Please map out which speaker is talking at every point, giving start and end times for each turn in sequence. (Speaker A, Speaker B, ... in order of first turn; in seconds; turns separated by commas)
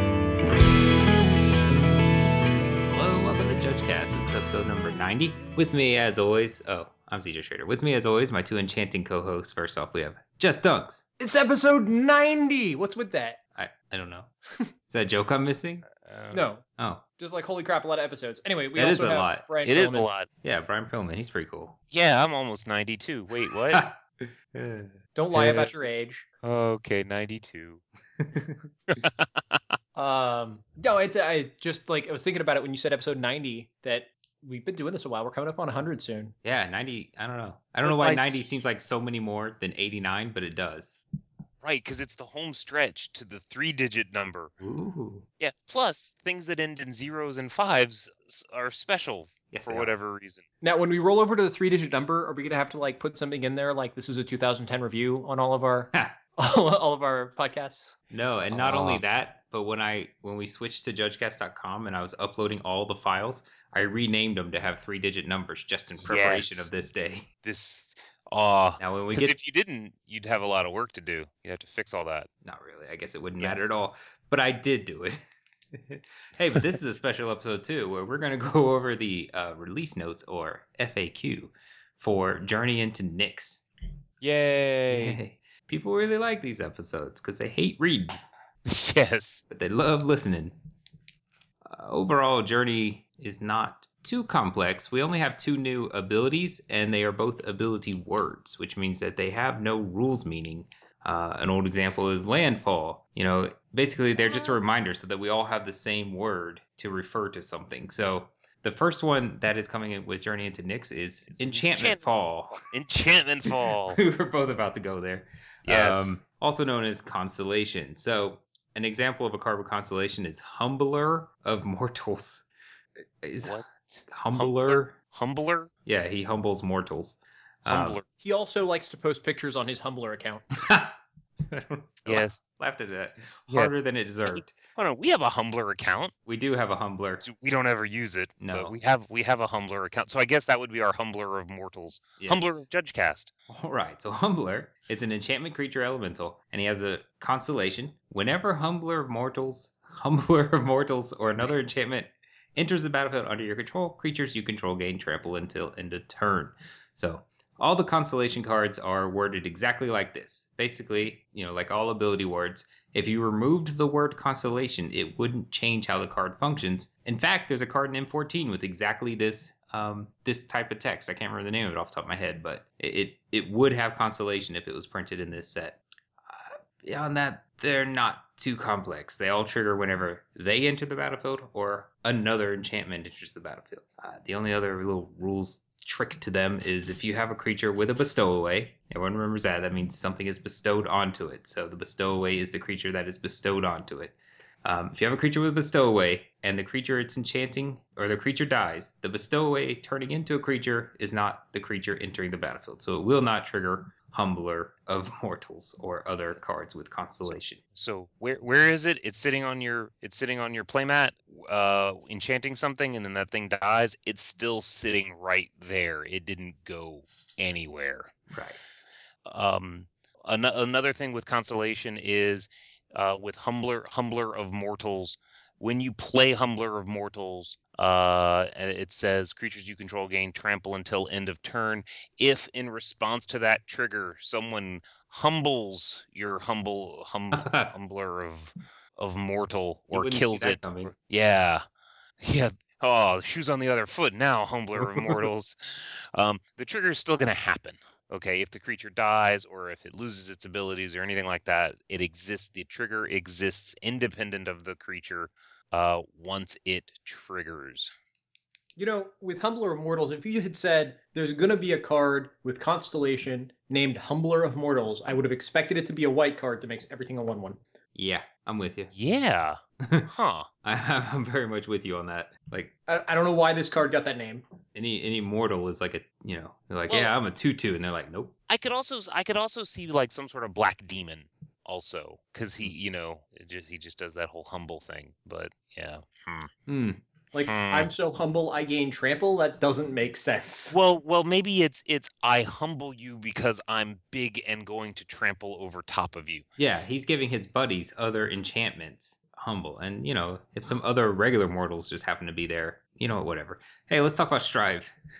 Speaker A: 2.9-11.0, Speaker B: 11.2-13.4, Speaker A: 13.6-14.3, Speaker A: 14.9-15.8, Speaker C: 15.9-16.5, Speaker B: 16.3-16.6, Speaker A: 16.8-17.0, Speaker B: 17.2-20.1, Speaker A: 18.8-19.5, Speaker C: 19.6-20.3, Speaker A: 20.4-21.8, Speaker C: 21.9-23.8, Speaker A: 23.7-25.5, Speaker B: 25.1-26.2, Speaker C: 26.4-27.8, Speaker A: 28.3-28.6, Speaker C: 28.9-29.6, Speaker B: 29.9-36.3, Speaker A: 36.4-41.0, Speaker C: 37.8-38.4, Speaker C: 41.6-44.5, Speaker A: 44.6-45.3, Speaker C: 45.4-50.4, Speaker A: 49.5-49.9, Speaker B: 50.6-57.9, Speaker A: 55.9-56.2, Speaker A: 58.1-67.3, Speaker C: 58.5-59.0, Speaker C: 66.0-66.7, Speaker C: 67.4-72.3, Speaker A: 68.8-69.3, Speaker A: 72.4-75.2, Speaker A: 75.7-83.6, Speaker C: 84.2-85.2, Speaker A: 84.9-88.2, Speaker C: 88.7-89.4, Speaker A: 89.5-90.5, Speaker A: 91.6-112.6, Speaker C: 111.3-114.0, Speaker A: 113.9-122.4, Speaker C: 115.7-116.2, Speaker A: 123.2-124.9, Speaker C: 123.4-125.7, Speaker A: 125.8-128.0, Speaker C: 127.7-128.1, Speaker B: 128.2-130.4, Speaker A: 130.6-134.5, Speaker C: 132.1-132.4, Speaker C: 134.3-136.1, Speaker A: 136.2-137.2, Speaker C: 137.2-143.3, Speaker A: 138.4-138.7, Speaker A: 142.2-142.7, Speaker A: 143.5-207.6, Speaker C: 207.2-218.1, Speaker A: 218.3-218.6, Speaker C: 219.2-241.6, Speaker A: 237.3-237.7, Speaker A: 239.9-240.9, Speaker C: 242.2-257.9, Speaker A: 244.7-245.3, Speaker B: 258.8-267.6, Speaker A: 267.9-268.9, Speaker C: 268.9-270.5, Speaker A: 269.8-270.1, Speaker A: 270.6-272.7, Speaker B: 272.9-274.4, Speaker A: 274.7-278.3, Speaker C: 278.5-286.5, Speaker A: 286.7-287.0, Speaker B: 287.3-290.8, Speaker C: 287.4-287.9, Speaker C: 290.7-296.4, Speaker A: 296.6-304.9